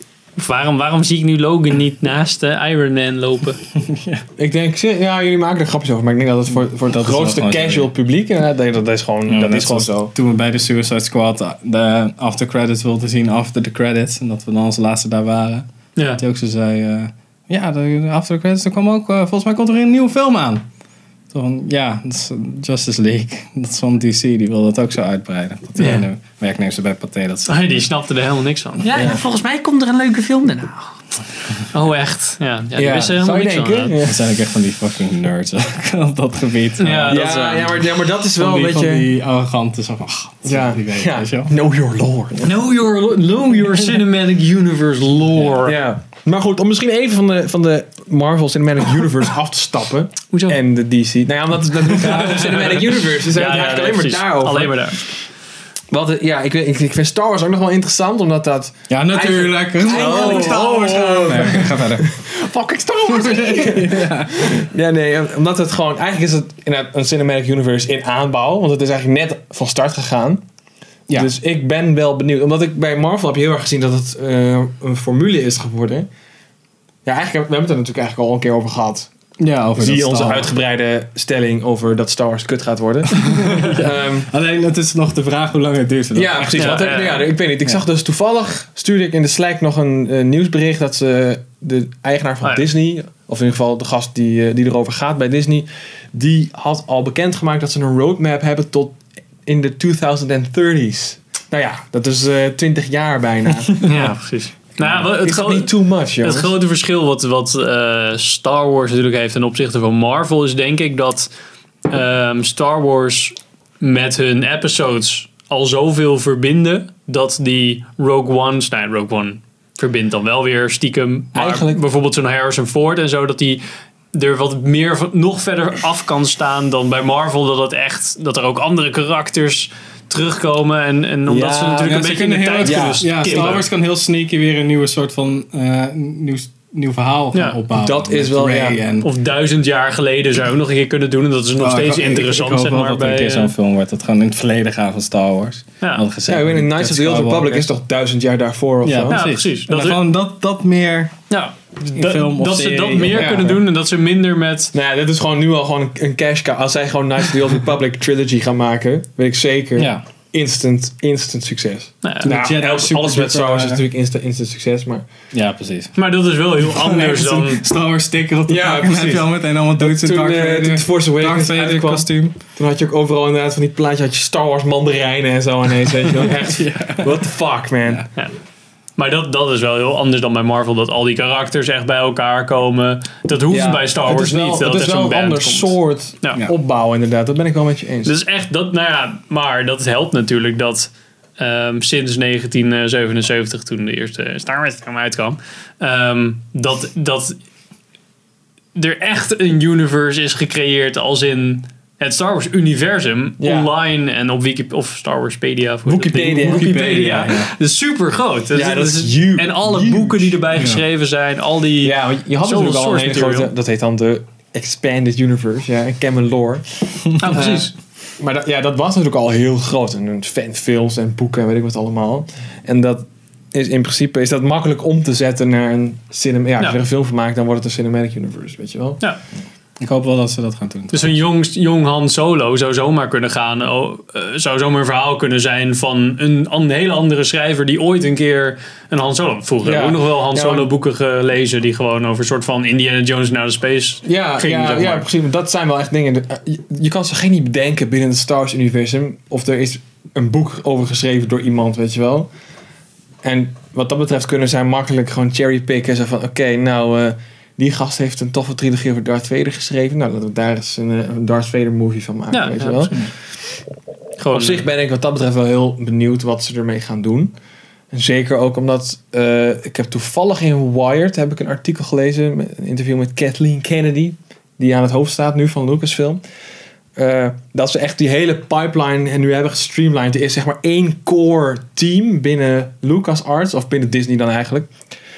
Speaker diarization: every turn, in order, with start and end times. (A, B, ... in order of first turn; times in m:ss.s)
0:00.4-0:03.6 A
0:03.7-0:04.2 B
0:04.4-0:10.1 C
0:06.5-0:07.9 B
0:09.3-0:15.7 B
0:16.0-0:16.2 A
0:16.2-0:20.6 B
0:21.3-0:27.9 B
0:25.8-0:26.0 A
0:27.5-0:30.9 A
0:28.9-0:29.2 C
0:31.7-0:33.9 A
0:32.8-0:34.2 C
0:34.0-0:37.3 B
0:36.8-0:37.7 A
0:37.1-0:39.1 C
0:38.3-0:41.5 B
0:40.4-0:42.5 C
0:42.4-0:45.8 A
0:45.6-0:55.0 C
0:50.3-0:50.6 A
0:52.0-0:55.0 A
0:55.9-1:10.4 C
0:58.9-1:02.1 B
0:59.9-1:00.7 A
1:03.0-1:04.7 B
1:11.1-1:16.1 C
1:17.0-1:19.1 C
1:19.4-1:20.5 B
1:19.8-1:24.3 C
1:23.2-1:27.0 B
1:23.3-1:23.7 A
1:26.1-1:43.8 C
1:26.5-1:27.3 A
1:43.7-1:51.3 A
1:44.8-1:46.5 C
1:51.9-2:03.6 A
2:01.3-2:01.8 C
2:04.1-2:13.6 A
2:11.3-2:12.0 C
2:11.8-2:19.1 B
2:12.6-2:13.5 C
2:17.7-2:18.8 C
2:19.0-2:23.5 A
2:21.6-2:27.7 B
2:26.3-2:29.2 C
2:28.8-2:31.1 B
2:29.1-2:30.0 A
2:31.3-2:34.7 A
2:31.9-2:33.6 B
2:33.0-2:33.5 C
2:34.7-2:45.0 C
2:39.8-2:40.0 B
2:42.0-2:42.3 A
2:42.2-2:43.8 B
2:45.3-2:45.9 B
2:46.0-2:47.6 A
2:46.6-2:52.4 B
2:48.5-2:58.0 C
2:56.1-2:57.3 B
2:59.0-3:06.4 A
3:03.5-3:08.1 C
3:08.0-3:17.4 A
3:18.7-3:33.5 A
3:23.4-3:23.7 C
3:25.9-3:27.0 C
3:26.2-3:27.5 B
3:28.5-3:30.4 C
3:30.5-3:30.8 B
3:31.8-3:49.0 C
3:37.2-3:37.7 A
3:49.8-3:51.2 B
3:50.9-4:05.0 A
3:59.6-4:00.7 C
4:04.0-4:12.3 C
4:13.2-4:23.0 C
4:22.3-4:23.0 A
4:24.2-4:24.7 A
4:24.3-4:27.3 C
4:27.9-4:36.2 C
4:37.0-4:44.7 C